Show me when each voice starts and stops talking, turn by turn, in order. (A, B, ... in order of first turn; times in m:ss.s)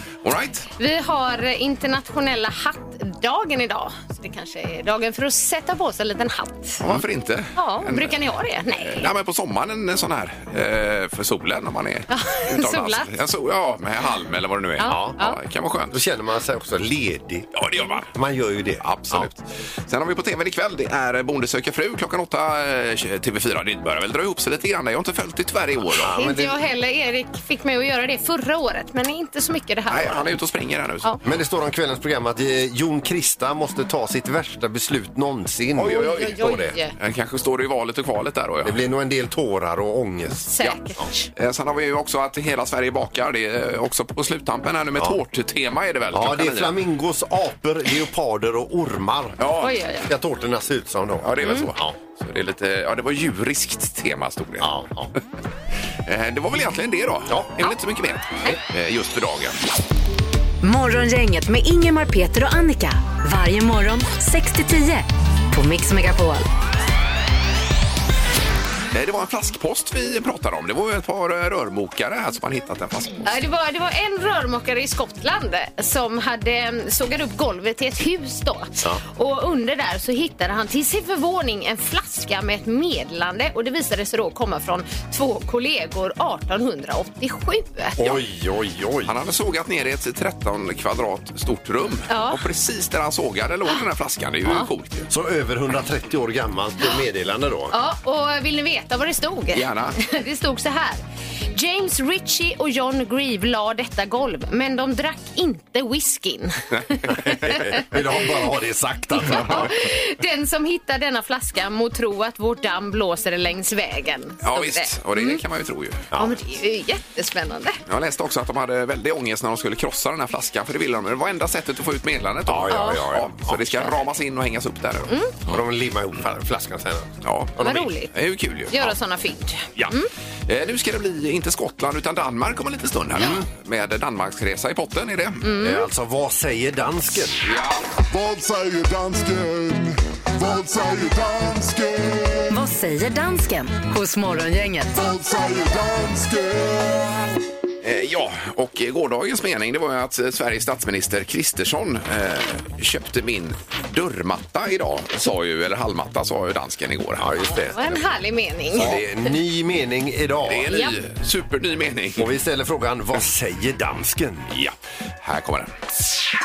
0:00.2-0:00.7 A
0:00.8-0:06.8 B
0:06.8-0:08.2 A
0:07.6-0:09.1 B
0:08.8-0:16.0 A
0:12.1-0:13.1 B
0:14.8-0:15.4 B
0:14.8-0:15.2 C
0:15.9-0:17.5 C
0:17.5-0:18.1 A
0:18.1-0:19.3 C
0:18.8-0:26.2 A
0:25.9-0:26.6 C
0:26.1-0:30.3 B
0:29.9-0:31.2 A
0:31.2-0:36.8 C
0:35.8-0:38.8 A
0:35.9-0:36.9 B
0:38.6-0:40.5 C
0:40.5-0:41.3 B
0:41.4-0:46.8 A
0:46.1-0:49.4 C
0:49.4-0:49.8 A
0:49.6-0:50.1 B
0:50.1-0:52.0 C
0:51.2-0:54.7 A
0:51.4-0:51.7 B
0:54.6-0:55.1 C
0:56.1-0:59.6 A
0:57.3-0:57.5 C
1:00.6-1:06.5 D
1:08.9-1:13.4 A
1:13.2-1:28.0 B
1:28.0-1:29.1 C
1:29.0-1:35.1 A
1:32.1-1:32.4 B
1:35.1-1:37.7 C
1:37.7-1:41.0 B
1:39.5-1:40.0 A
1:41.5-1:47.8 B
1:47.1-1:49.7 C
1:49.3-1:55.4 B
1:54.4-1:56.1 A
1:56.1-1:56.4 C
1:56.2-1:57.8 B
1:57.9-2:05.6 A
2:02.5-2:03.9 C
2:02.7-2:03.0 B
2:05.5-2:07.8 C
2:07.2-2:09.0 A
2:07.6-2:08.1 B
2:08.7-2:10.1 B
2:09.8-2:15.5 A
2:13.2-2:13.5 C
2:15.4-2:15.9 B
2:15.6-2:17.4 C
2:17.4-2:17.9 A
2:18.2-2:21.9 E
2:22.5-2:25.1 D
2:25.4-2:26.4 E
2:27.8-2:37.4 A
2:37.2-2:37.9 C
2:37.7-2:39.0 B
2:38.7-2:40.7 C
2:38.8-2:39.0 A
2:40.5-2:42.3 A
2:40.7-2:41.0 B
2:42.2-2:44.5 C
2:44.5-2:45.7 A